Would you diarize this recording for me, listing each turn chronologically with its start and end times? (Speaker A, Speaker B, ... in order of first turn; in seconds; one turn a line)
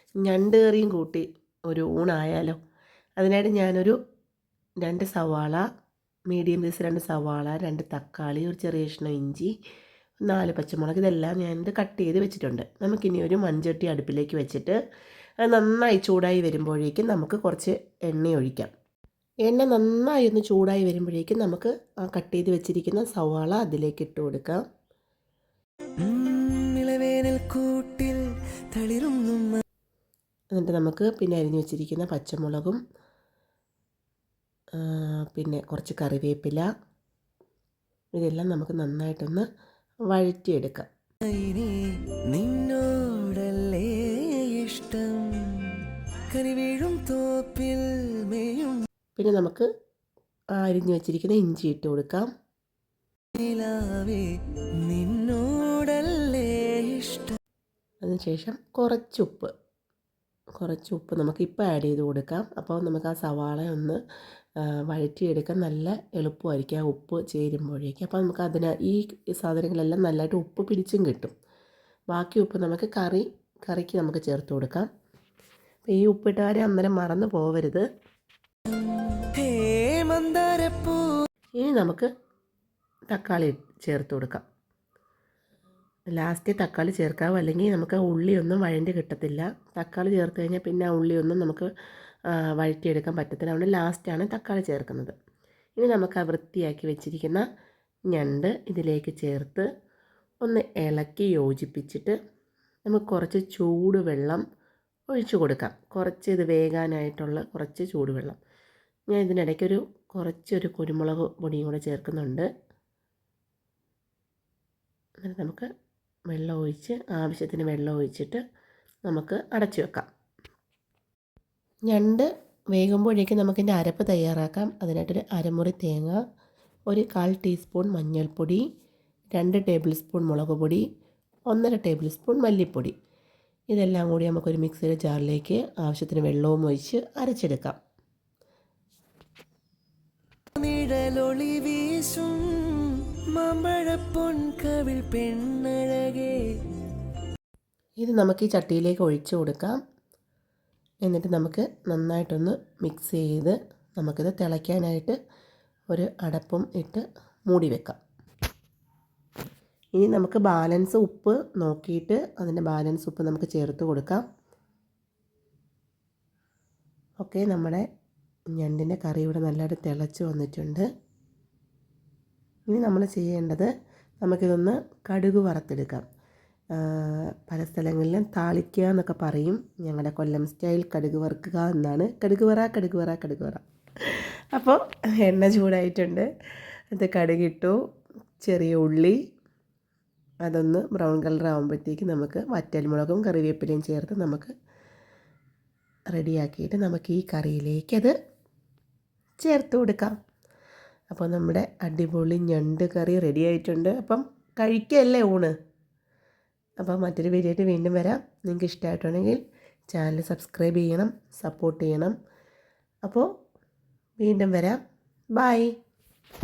Speaker A: 0.2-2.6
Speaker A: 3.2-4.0
Speaker A: 4.8-5.6
Speaker A: 6.3-9.5
Speaker A: 10.2-14.8
Speaker A: 15.4-18.7
Speaker A: 19.4-24.6
Speaker B: 26.0-29.6
Speaker A: 30.5-32.8
Speaker A: 34.7-36.7
Speaker A: 38.1-39.4
Speaker A: 40.1-40.9
Speaker B: 41.2-48.9
Speaker A: 49.2-49.7
Speaker A: 50.5-52.3
Speaker B: 53.3-54.3
Speaker B: 54.8-57.4
Speaker A: 58.0-59.5
Speaker A: 60.6-64.0
Speaker A: 64.6-71.3
Speaker A: 72.1-74.9
Speaker A: 75.9-77.8
Speaker B: 79.2-81.2
Speaker A: 81.6-82.1
Speaker A: 83.1-84.4
Speaker A: 86.1-91.7
Speaker A: 92.3-95.1
Speaker A: 95.8-97.4
Speaker A: 98.1-99.7
Speaker A: 100.4-102.1
Speaker A: 102.8-104.4
Speaker A: 105.1-108.4
Speaker A: 109.1-112.5
Speaker A: 115.2-115.7
Speaker A: 116.3-118.4
Speaker A: 119.1-120.1
Speaker A: 121.9-126.2
Speaker A: 126.9-128.6
Speaker A: 129.3-130.8
Speaker A: 131.5-132.9
Speaker A: 133.7-137.8
Speaker B: 140.6-146.5
Speaker A: 148.0-149.8
Speaker A: 151.0-155.2
Speaker A: 155.9-158.0
Speaker A: 159.9-164.2
Speaker A: 167.2-167.8
Speaker A: 168.6-170.8
Speaker A: 172.7-173.7
Speaker A: 174.2-176.0
Speaker A: 176.7-186.3
Speaker A: 186.9-187.8
Speaker A: 188.4-189.2
Speaker A: 190.4-194.5
Speaker A: 196.1-198.1
Speaker A: 199.4-200.1
Speaker A: 201.1-205.5
Speaker A: 206.8-209.4
Speaker A: 209.9-212.1
Speaker A: 214.2-214.8
Speaker A: 215.3-215.7